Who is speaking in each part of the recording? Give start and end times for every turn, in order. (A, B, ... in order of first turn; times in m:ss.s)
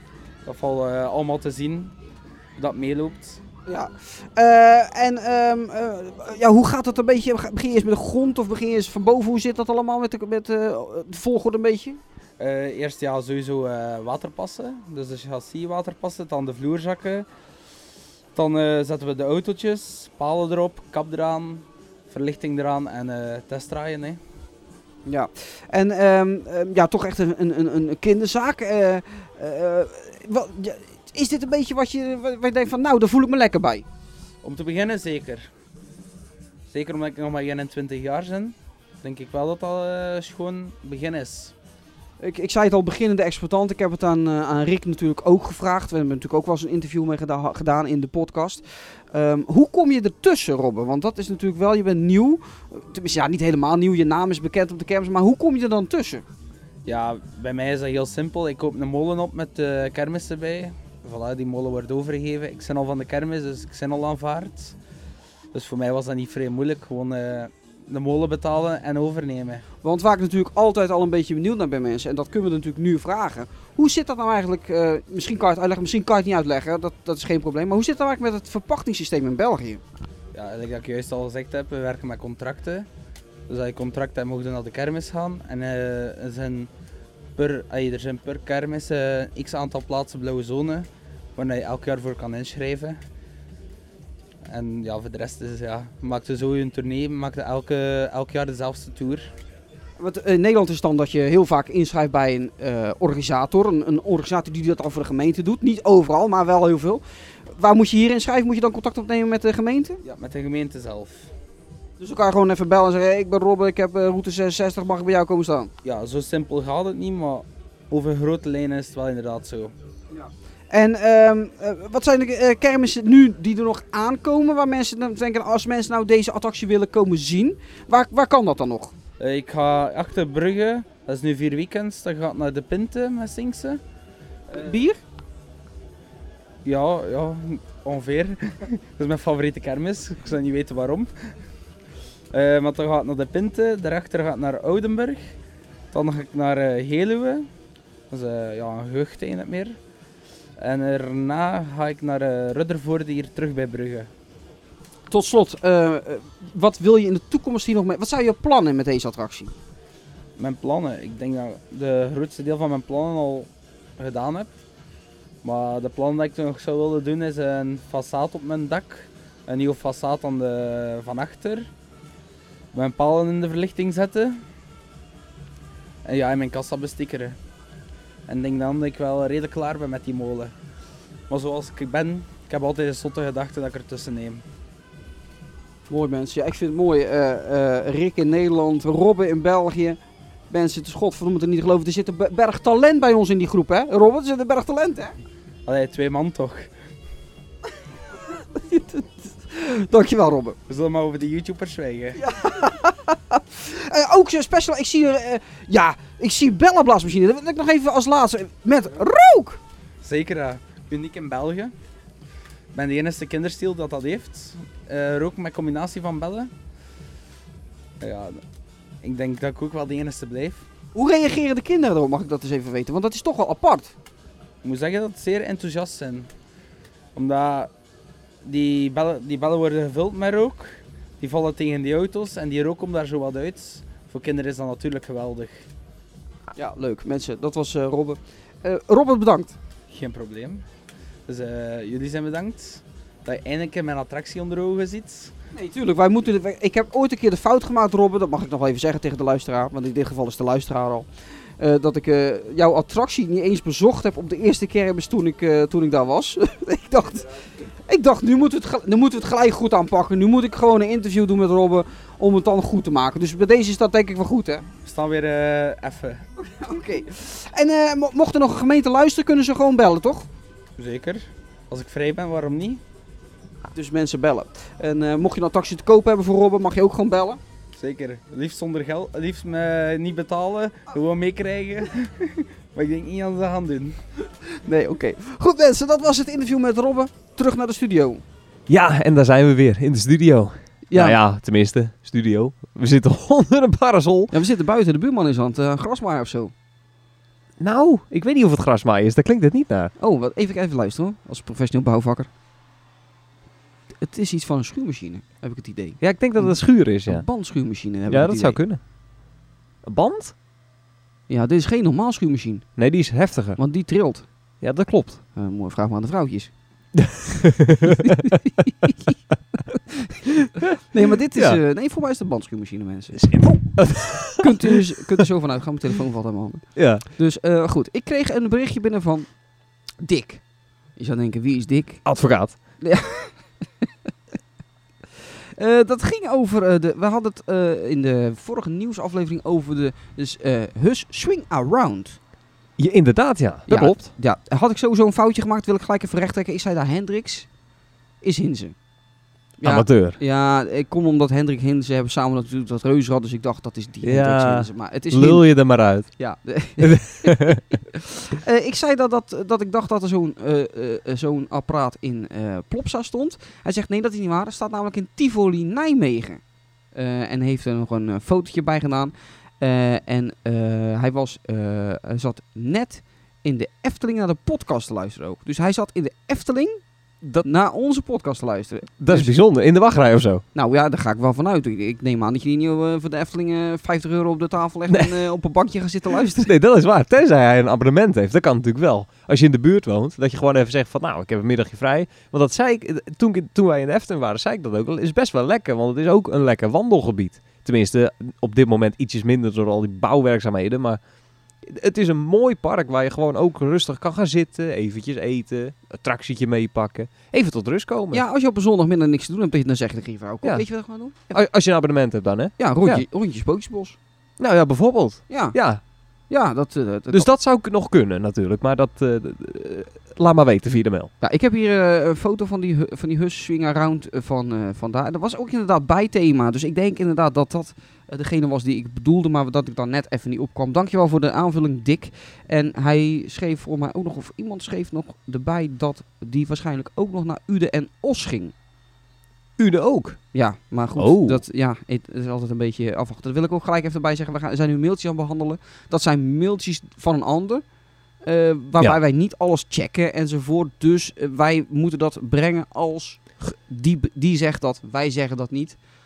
0:00.4-0:01.9 A
0:02.6-0:03.4 A
0:03.6-0:12.0 B
0:12.4-0:17.3 A
0:18.3-0:24.2 A
0:25.0-0:33.8 B
0:34.4-0:35.5 A
0:36.7-0:41.5 A
0:42.2-0:56.2 B
0:56.8-1:04.7 A
1:05.5-1:09.6 A
1:09.8-1:19.8 B
1:20.3-1:22.9 A
1:23.5-1:26.7 A
1:27.4-1:33.0 A
1:34.5-1:39.3 A
1:40.0-1:50.0 B
1:50.0-1:51.3 A
1:52.0-1:55.7 B
1:55.8-1:59.7 A
2:00.1-2:08.9 B
2:09.2-2:13.8 A
2:14.5-2:15.0 B
2:16.6-2:21.1 A
2:22.3-2:25.3 A
2:25.9-2:27.5 A
2:28.1-2:29.8 A
2:30.6-2:34.1 A
2:35.1-2:39.5 B
2:40.4-2:44.5 A
2:45.4-2:51.7 A
2:52.7-2:54.4 A
2:56.0-2:57.4 A
2:58.3-3:00.5 A
3:01.3-3:04.4 A
3:05.9-3:10.0 B
3:10.5-3:15.1 B
3:15.6-3:16.7 A
3:18.5-3:20.6 B
3:20.7-3:22.2 A
3:22.2-3:29.6 B
3:30.0-3:31.7 A
3:32.7-3:36.5 A
3:38.0-3:38.4 A
3:39.0-3:40.6 A
3:40.9-3:43.9 B
3:44.6-3:46.3 A
3:47.1-3:47.7 A
3:48.4-3:55.6 A
3:56.6-3:59.6 B
3:59.9-4:00.6 A
4:01.3-4:05.3 A
4:05.5-4:11.1 B
4:11.6-4:17.3 B
4:17.9-4:24.6 B
4:24.8-4:26.2 A
4:26.4-4:30.3 B
4:30.8-4:32.8 A
4:33.7-4:37.4 B
4:37.8-4:44.0 A
4:44.6-4:48.2 B
4:48.7-4:54.3 C
4:50.9-4:51.2 B
4:54.3-4:56.5 B
4:57.6-4:59.9 C
5:00.0-5:02.3 B
5:04.0-5:08.6 B
5:06.0-5:07.2 C
5:08.1-5:08.8 C
5:09.8-5:10.3 C
5:11.3-5:12.7 B
5:12.8-5:13.6 C
5:13.6-5:14.3 B
5:14.6-5:15.2 C
5:15.4-5:16.5 B
5:17.0-5:18.3 C
5:17.8-5:19.1 B
5:19.7-5:23.7 B
5:23.1-5:25.2 C
5:24.4-5:29.3 B
5:26.8-5:27.0 C
5:30.0-5:30.4 B
5:31.0-5:32.0 B
5:32.0-5:32.6 C
5:32.8-5:33.3 B
5:35.6-5:42.2 B
5:42.8-5:44.1 C
5:43.7-5:47.5 B
5:48.2-5:48.7 B
5:49.6-5:55.5 B
5:49.6-5:50.2 C
5:54.0-5:56.1 C
5:56.2-6:06.4 B
5:56.8-5:57.6 C
6:06.9-6:16.8 B
6:17.4-6:19.3 B
6:19.0-6:20.4 C
6:20.5-6:26.5 B
6:24.9-6:25.2 C
6:26.4-6:41.0 C
6:41.6-6:48.2 C
6:48.1-6:51.3 B
6:51.3-6:53.0 C
6:52.6-6:54.0 B
6:54.4-6:55.8 C
6:55.3-6:55.6 B
6:56.3-6:57.3 B
6:57.1-7:01.1 C
7:01.2-7:18.5 B
7:19.6-7:20.2 C
7:20.3-7:27.6 B
7:21.0-7:21.4 C
7:28.2-7:35.8 B